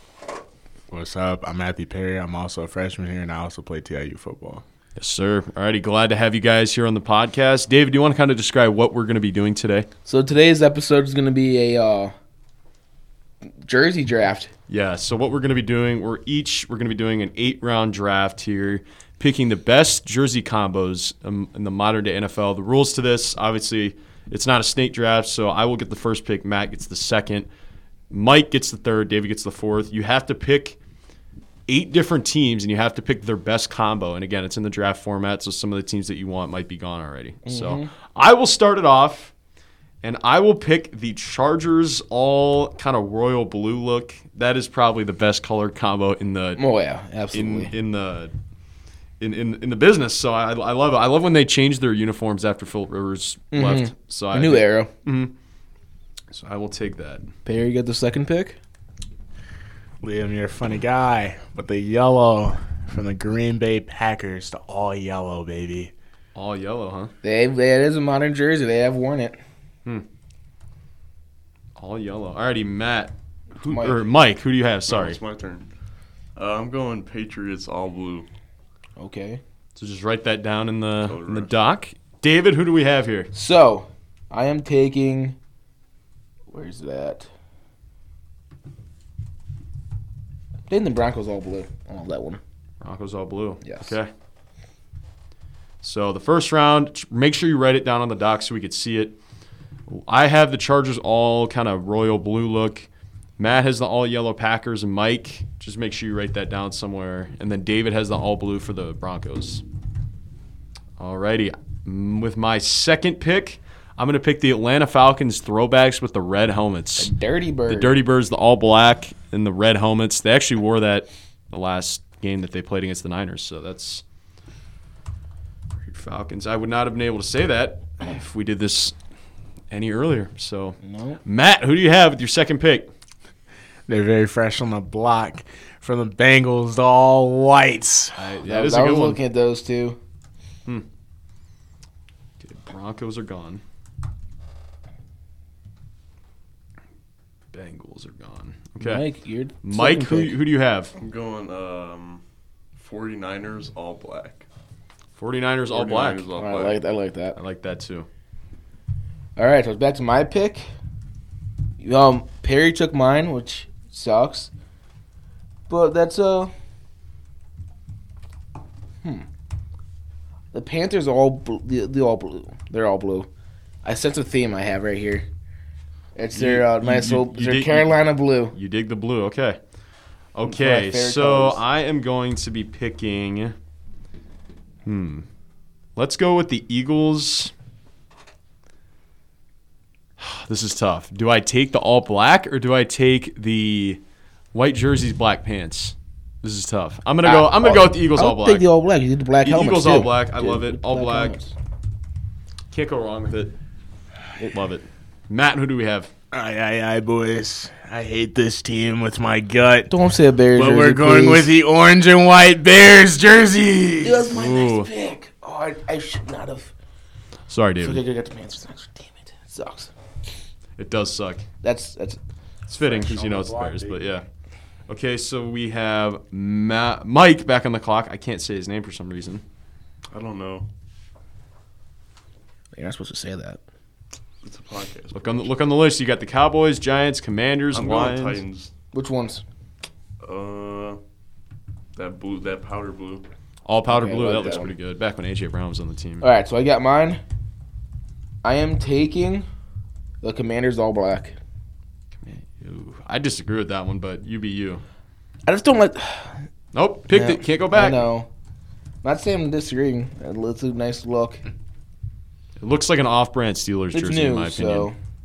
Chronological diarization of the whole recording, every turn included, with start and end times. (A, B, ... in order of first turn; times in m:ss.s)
0:00.9-0:04.6 A
0:05.0-0:09.9 B
0:10.1-0:12.1 C
0:13.4-0:14.5 C
0:14.7-0:27.5 B
0:28.1-0:30.8 B
0:31.7-0:39.3 B
0:37.5-0:37.9 C
0:40.0-0:46.6 B
0:46.6-0:47.7 C
0:47.3-0:48.3 B
0:49.2-0:55.3 B
0:53.5-0:54.9 C
0:56.3-0:57.2 B
0:57.5-0:58.6 C
1:00.0-1:05.9 A
1:06.4-1:07.1 B
1:07.2-1:09.4 C
1:11.8-1:15.2 B
1:13.6-1:14.1 C
1:14.9-1:15.7 D
1:16.4-1:18.3 D
1:19.0-1:19.4 C
1:19.8-1:23.3 B
1:21.0-1:21.6 D
1:23.3-1:25.4 C
1:26.5-1:27.3 C
1:30.7-1:32.4 C
1:32.8-1:34.1 B
1:33.6-1:34.0 C
1:35.8-1:39.2 B
1:39.9-1:49.6 B
1:51.0-1:57.1 B
1:57.0-1:58.0 C
1:57.7-2:04.0 B
2:05.9-2:08.9 B
2:09.7-2:12.9 B
2:10.8-2:11.2 C
2:13.9-2:18.2 A
2:18.2-2:19.2 B
2:18.4-2:20.0 C
2:22.4-2:23.6 B
2:27.5-2:29.1 B
2:28.8-2:30.4 C
2:29.6-2:30.9 B
2:31.0-2:32.2 D
2:32.8-2:34.5 D
2:35.2-2:36.3 B
2:35.7-2:36.8 D
2:36.4-2:37.4 C
2:37.4-2:38.1 B
2:39.4-2:40.6 C
2:41.8-2:44.5 C
2:45.7-2:46.5 C
2:50.5-2:53.3 C
2:53.8-2:55.3 C
2:56.2-2:58.6 C
2:56.3-2:58.0 B
2:58.5-2:59.6 B
3:00.3-3:03.5 B
3:00.4-3:01.6 C
3:04.9-3:05.3 B
3:06.0-3:07.5 B
3:10.2-3:14.0 B
3:14.5-3:18.7 B
3:17.2-3:21.6 C
3:19.4-3:21.4 B
3:22.7-3:23.5 B
3:24.4-3:26.1 B
3:26.3-3:29.9 A
3:29.9-3:31.5 C
3:30.5-3:34.3 A
3:34.0-3:36.7 C
3:34.3-3:34.9 B
3:37.5-3:38.0 B
3:37.8-3:39.9 C
3:40.8-3:41.5 B
3:41.6-3:42.2 C
3:42.7-3:44.2 B
3:42.7-3:44.2 A
3:44.9-3:49.4 B
3:50.1-3:50.7 D
3:52.8-3:53.6 C
3:54.4-3:55.6 D
3:55.1-3:58.4 B
3:57.7-3:58.7 D
3:58.9-3:59.4 C
4:00.2-4:01.0 D
4:02.0-4:03.3 D
4:03.7-4:06.3 B
4:03.9-4:04.8 C
4:06.2-4:07.2 C
4:08.4-4:09.5 C
4:10.2-4:11.4 C
4:12.2-4:14.8 B
4:15.5-4:16.5 C
4:16.7-4:18.1 B
4:17.1-4:18.3 C
4:19.0-4:21.4 C
4:22.6-4:24.9 B
4:23.9-4:25.0 C